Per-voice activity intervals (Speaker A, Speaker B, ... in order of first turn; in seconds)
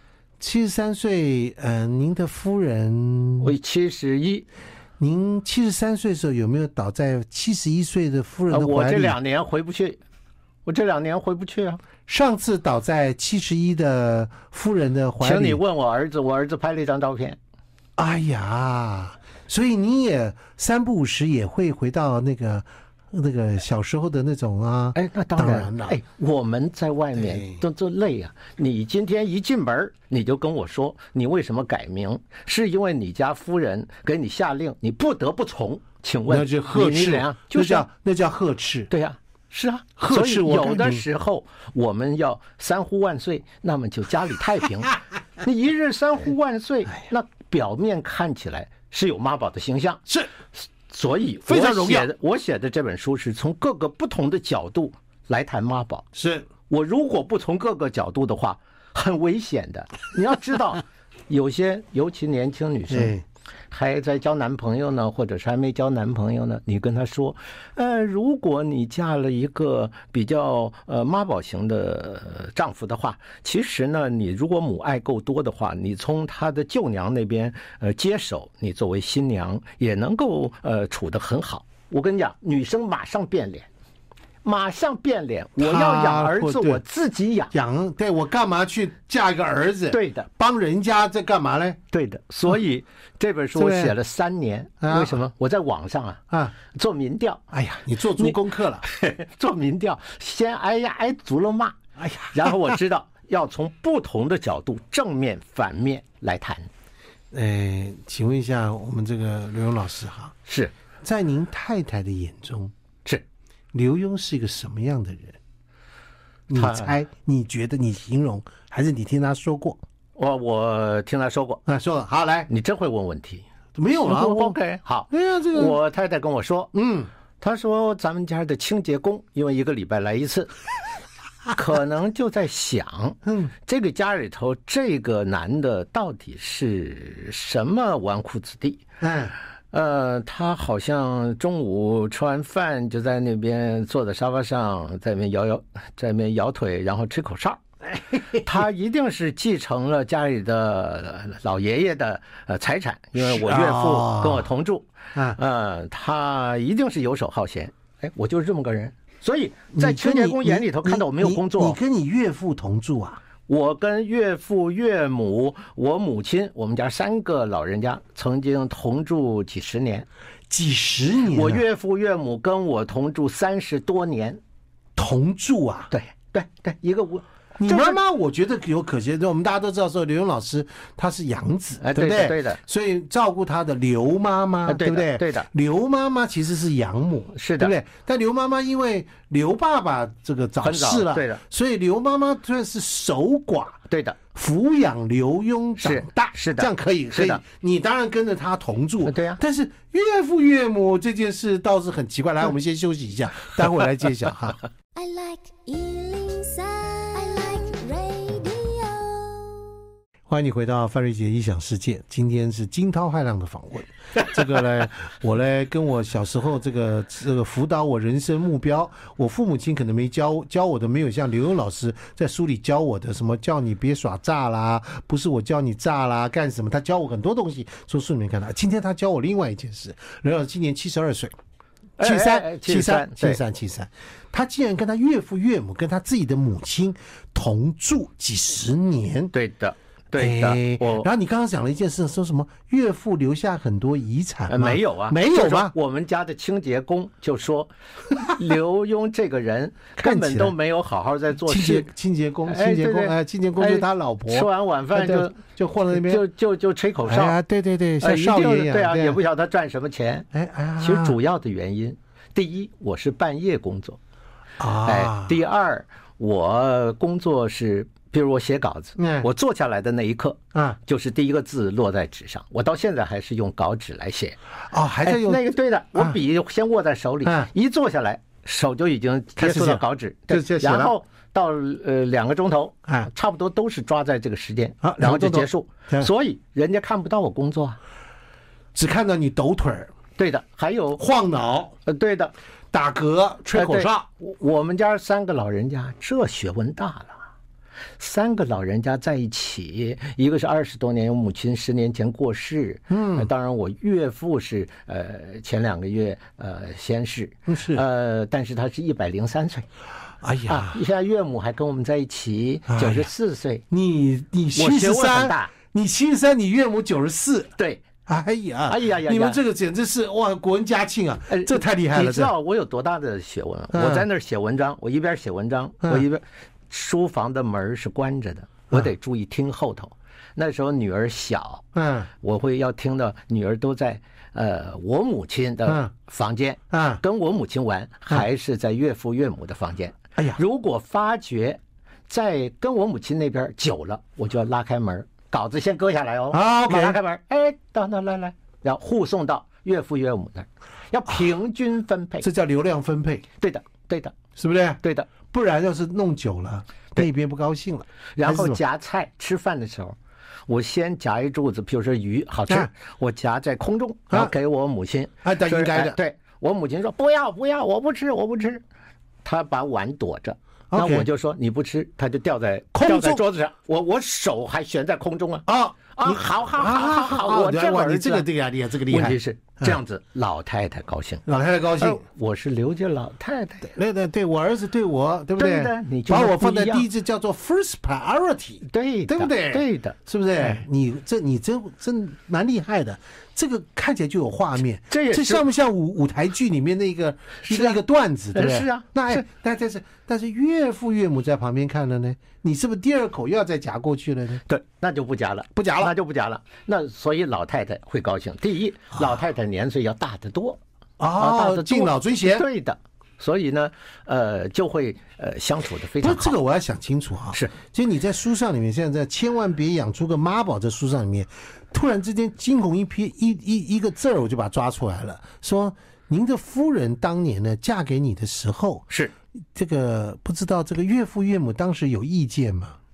Speaker A: 0.4-3.5, 5.0-9.2, 12.1-15.6, 18.0-26.0, 27.1-27.6, 36.3-38.9, 40.0-41.0, 51.5-52.1, 56.1-56.5, 62.9-63.2, 85.6-86.8, 87.5-91.8, 93.5-93.9, 94.8-95.2, 97.5-98.8, 102.0-102.8, 107.3-110.3, 111.0-112.7, 113.7-115.4, 116.5-119.8, 121.7-122.5, 123.8-124.6, 125.1-125.8, 126.7-127.1, 133.2-133.5, 139.0-139.3, 148.0-148.4, 153.2-154.5, 159.7-163.2, 170.5-171.6, 174.9-175.9, 177.6-193.8, 194.3-204.6, 210.3-231.3, 232.0-239.3, 240.2-245.7, 250.0-250.6, 251.5-256.2, 257.1-259.2, 260.3-261.2, 264.6-265.4, 269.0-269.3, 274.7-275.4, 277.2-277.5, 279.4-280.9, 284.8-286.1, 288.8-289.9, 291.0-291.8, 292.7-294.1, 302.9-303.3, 307.5-307.8, 310.2-310.8, 312.7-313.1, 313.7-317.5, 318.1-322.3, 323.7-324.1, 331.7-332.1, 336.7-337.0, 346.3-347.0, 352.2-353.2, 354.4-358.6, 365.2-366.0, 370.7-371.1, 372.7-373.2, 375.5-379.8, 381.2-382.0, 383.7-404.4, 405.5-405.9, 411.0-412.5, 416.0-428.9, 429.5-432.8
Speaker B: 3.4-4.5, 8.5-10.0, 10.7-11.8, 15.2-17.4, 24.9-37.9, 38.9-50.0, 50.9-56.1, 56.7-63.1, 63.7-83.7, 84.4-87.5, 89.9-90.3, 91.9-97.4, 98.1-106.7, 110.5-110.7, 116.5-116.9, 120.2-121.6, 122.5-123.4, 124.0-126.7, 127.4-130.5, 131.5-138.8, 139.7-147.6, 148.3-161.8, 163.5-170.1, 171.3-174.4, 175.9-178.0, 181.8-182.6, 184.7-185.5, 187.3-187.7, 190.6-191.4, 193.9-194.2, 195.8-197.4, 199.1-199.4, 232.0-233.4, 239.3-241.1, 244.5-251.9, 252.5-257.4, 258.0-260.3, 260.8-264.0, 264.8-274.4, 275.1-287.8, 290.2-291.0, 291.9-292.3, 293.5-297.2, 298.0-309.6, 310.5-313.6, 314.5-315.5, 317.6-317.9, 318.7-319.4, 321.3-331.7, 332.2-352.3, 353.4-354.1, 354.8-355.1, 358.1-360.0, 360.5-368.6, 369.2-378.3, 378.9-381.2, 381.8-383.7, 385.4-386.9, 388.6-390.6, 394.9-395.4, 397.5-397.8, 398.3-399.2, 404.5-410.6, 411.2-416.4
Speaker C: 204.9-209.7